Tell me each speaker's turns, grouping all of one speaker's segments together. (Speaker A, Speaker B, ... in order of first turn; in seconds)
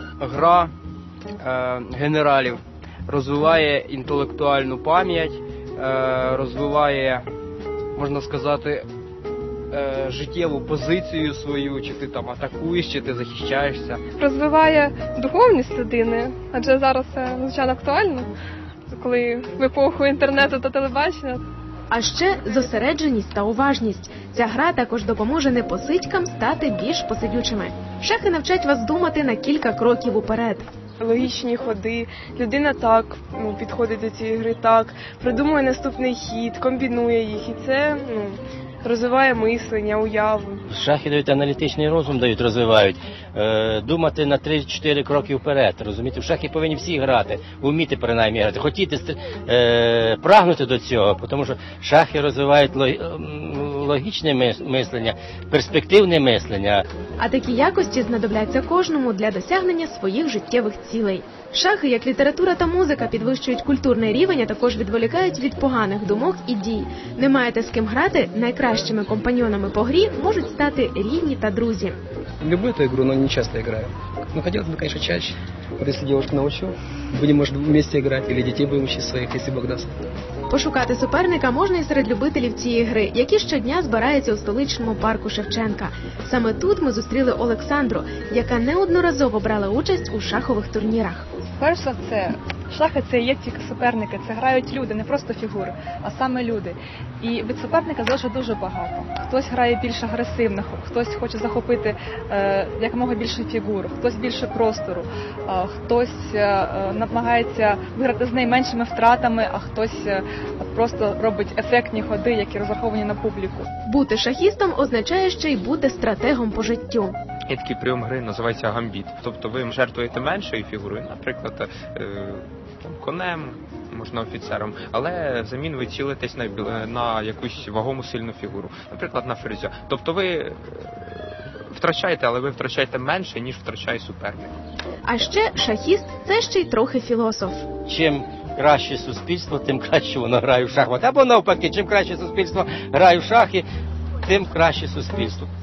Speaker A: 0.2-0.7, 1.4-7.2, 7.9-8.8, 9.7-14.0
Speaker B: 14.1-18.3, 18.9-21.4
Speaker C: 21.9-30.6, 57.2-72.0, 80.5-91.3, 113.8-117.1, 135.0-137.7
Speaker D: 31.0-40.6
Speaker E: 40.7-56.9, 137.8-143.7, 144.2-145.5
Speaker F: 72.4-79.9
Speaker G: 91.6-113.7
Speaker H: 117.5-134.5